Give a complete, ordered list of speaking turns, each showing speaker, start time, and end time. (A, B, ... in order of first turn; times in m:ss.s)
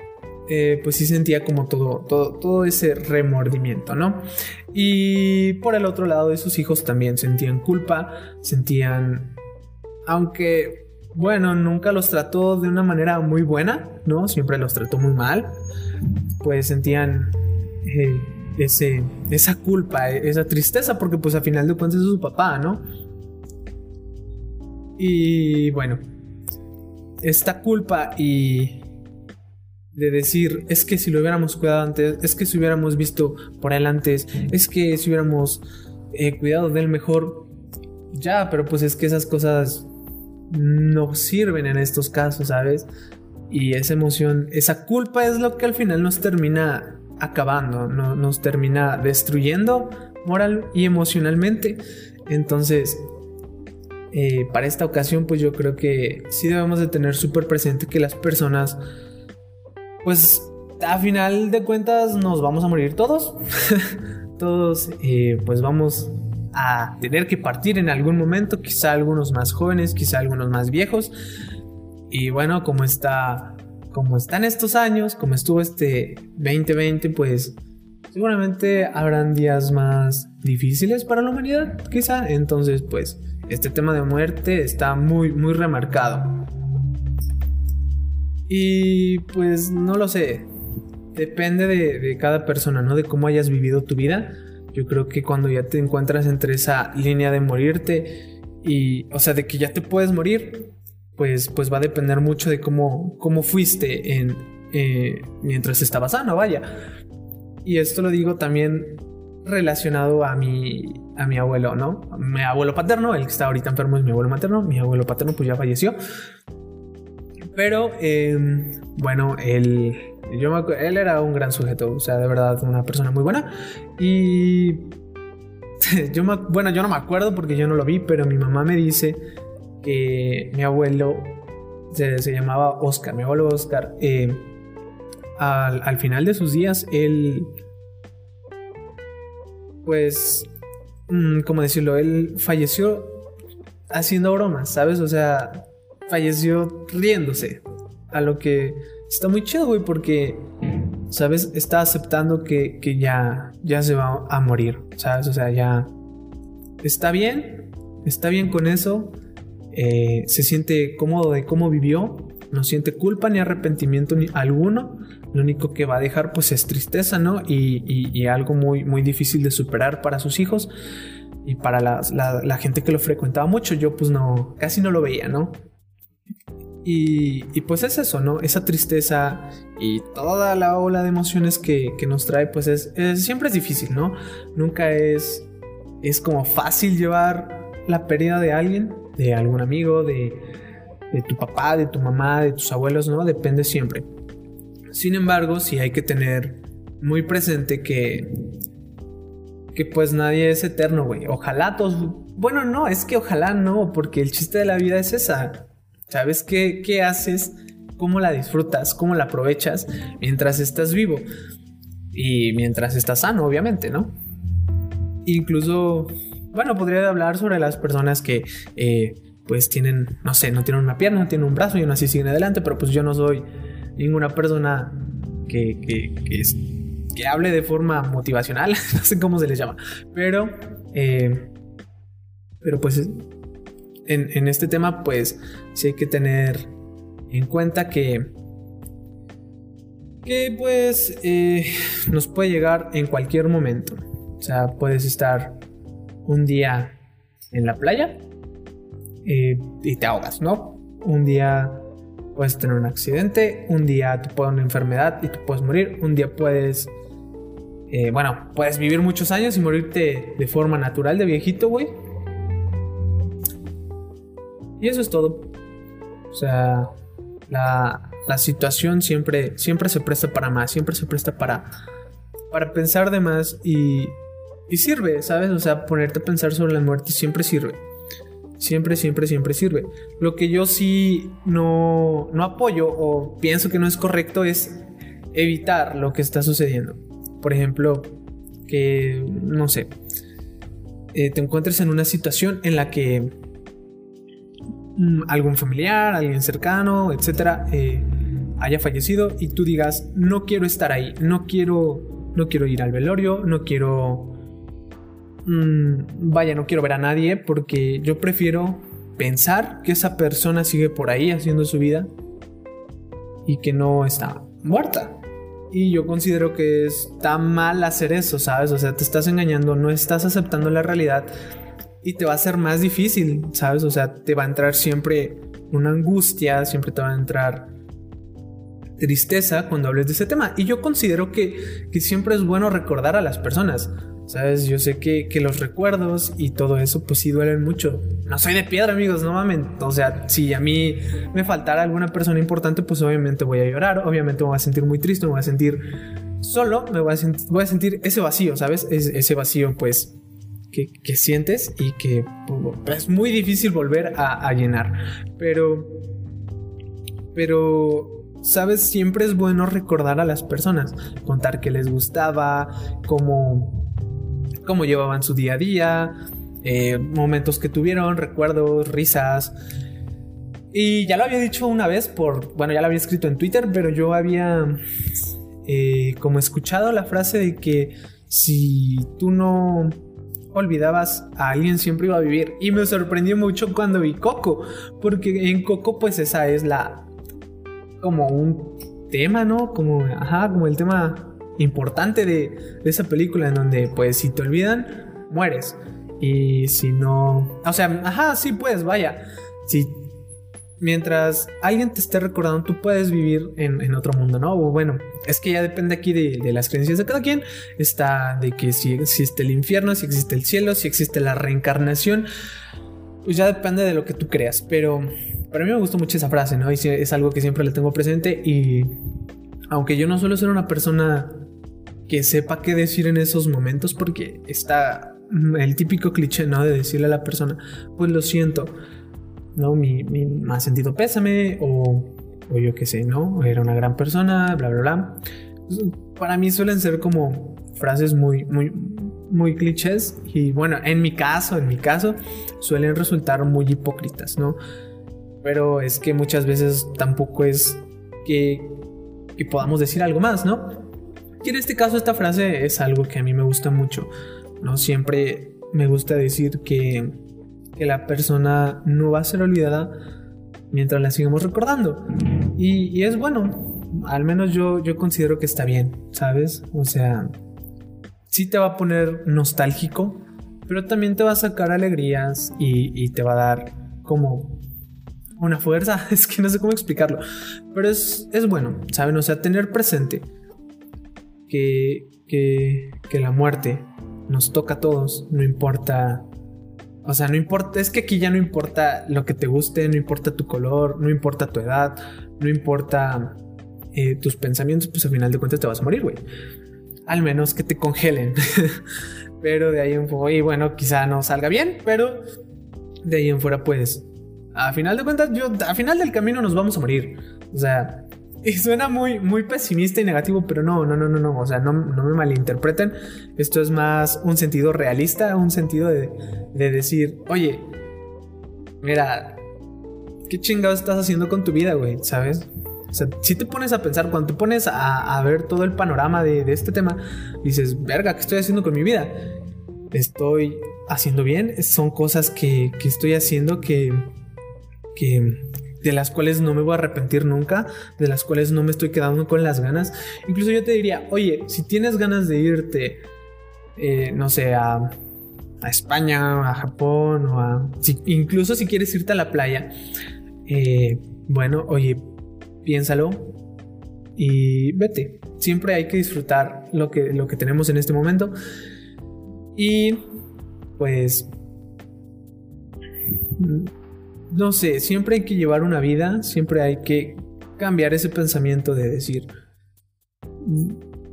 0:00.5-0:09.4 A
0:10.1-0:15.5 A
0:16.4-0:22.8 A
0:25.0-0:26.0 A
0:27.2-0:28.9 A
0:29.9-0:37.5 A
0:38.1-0:39.9 A
0:40.5-0:42.9 A
0:43.5-0:53.0 A
0:54.1-0:58.8 A
1:00.0-1:11.1 A
1:12.1-1:17.6 A
1:18.1-1:26.3 A
1:28.5-1:30.5 A
1:31.1-1:46.7 A
1:47.6-1:56.0 A
1:57.6-2:05.0 A
2:05.8-2:09.2 A
2:09.8-2:14.5 A
2:15.4-2:17.5 A
2:19.8-2:20.5 A
2:21.1-2:23.3 A
2:23.9-2:30.5 A
2:31.1-2:35.9 A
2:36.8-2:39.2 A
2:39.7-2:50.7 A
2:51.4-2:55.6 A
2:56.8-3:05.5 A
3:06.0-3:10.4 A
3:11.1-3:14.1 A
3:14.9-3:18.3 A
3:19.7-3:31.3 A
3:32.1-3:34.2 A
3:35.2-3:43.4 A
3:44.0-3:46.6 A
3:47.1-3:51.5 A
3:52.6-3:53.2 A
3:54.1-3:56.7 A
3:57.3-3:58.3 A
4:00.2-4:05.6 A
4:06.2-4:07.0 A
4:07.5-4:08.2 A
4:09.2-4:16.9 A
4:17.9-4:21.9 A
4:24.8-4:25.5 A
4:26.3-4:26.9 A
4:27.5-4:31.7 A
4:32.5-4:34.2 A
4:34.7-4:37.8 A
4:38.6-4:44.8 A
4:45.3-4:49.9 A
4:51.1-4:53.3 A
4:55.0-5:04.4 A
5:05.4-5:12.1 A
5:13.4-5:15.2 A
5:15.7-5:21.3 A
5:22.0-5:27.7 A
5:29.0-5:50.2 A
5:50.7-5:56.1 A
5:57.3-6:03.9 A
6:04.6-6:09.5 A
6:10.7-6:14.8 A
6:15.6-6:20.0 A
6:20.5-6:27.1 A
6:28.0-6:40.1 A
6:40.8-6:52.3 A
6:53.2-6:59.0 A
6:59.7-7:01.5 A
7:02.1-7:08.7 A
7:09.5-7:24.6 A
7:25.4-7:30.8 A
7:31.4-7:37.2 A
7:37.8-7:39.9 A
7:40.7-7:47.3 A
7:48.3-7:54.6 A
7:55.4-8:00.3 A
8:01.5-8:06.3 A
8:07.0-8:13.4 A
8:13.9-8:16.2 A
8:17.1-8:18.8 A
8:19.4-8:22.2 A
8:23.0-8:37.7 A
8:38.8-8:39.4 A
8:40.3-8:49.3 A
8:49.9-8:54.1 A
8:55.0-9:03.0 A
9:03.8-9:04.9 A
9:05.6-9:09.7 A
9:10.5-9:13.4 A
9:14.2-9:18.3 A
9:19.6-9:20.1 A
9:20.8-9:21.3 A
9:23.4-9:23.7 A
9:24.3-9:29.3 A
9:30.4-9:30.8 A